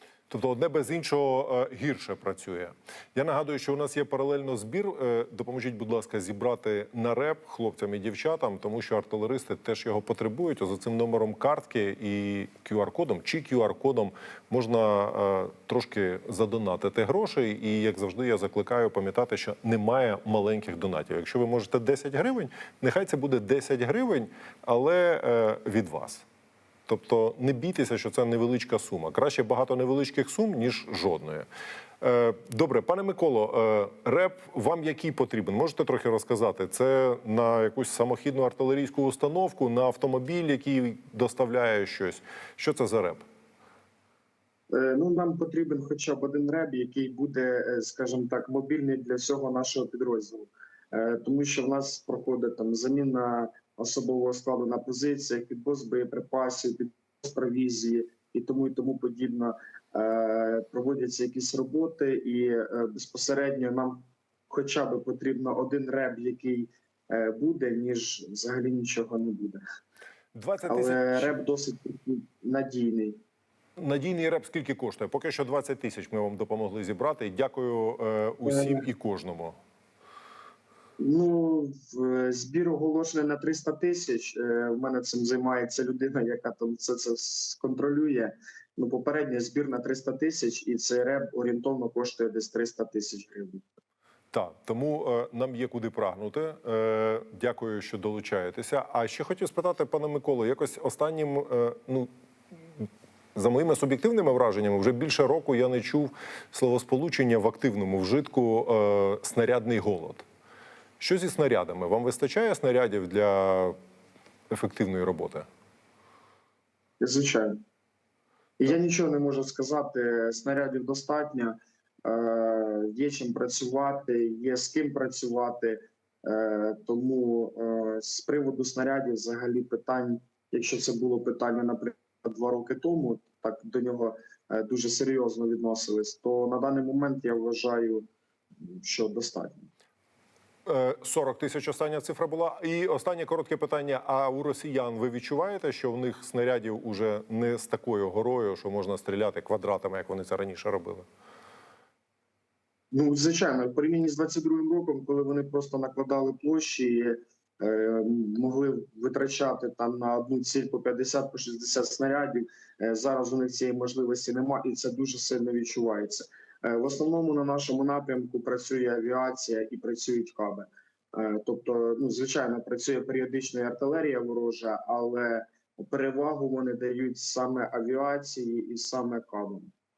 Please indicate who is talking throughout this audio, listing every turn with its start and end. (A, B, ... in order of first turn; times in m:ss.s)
0:00.3-0:26.2 A
0:26.9-0:31.5 A
0:32.0-0:43.2 A
0:44.7-1:09.6 B
1:10.3-1:11.4 A
1:10.7-1:13.2 B
1:13.8-1:19.6 A
1:18.4-1:18.8 B
1:21.0-1:33.6 B
1:34.3-1:42.1 A
1:42.8-1:50.2 A
1:51.0-1:53.8 A
1:54.5-1:55.5 A
1:57.0-1:57.6 B
1:58.6-2:18.1 B
2:18.6-2:19.7 B
2:20.7-2:31.1 A
2:32.9-2:59.7 B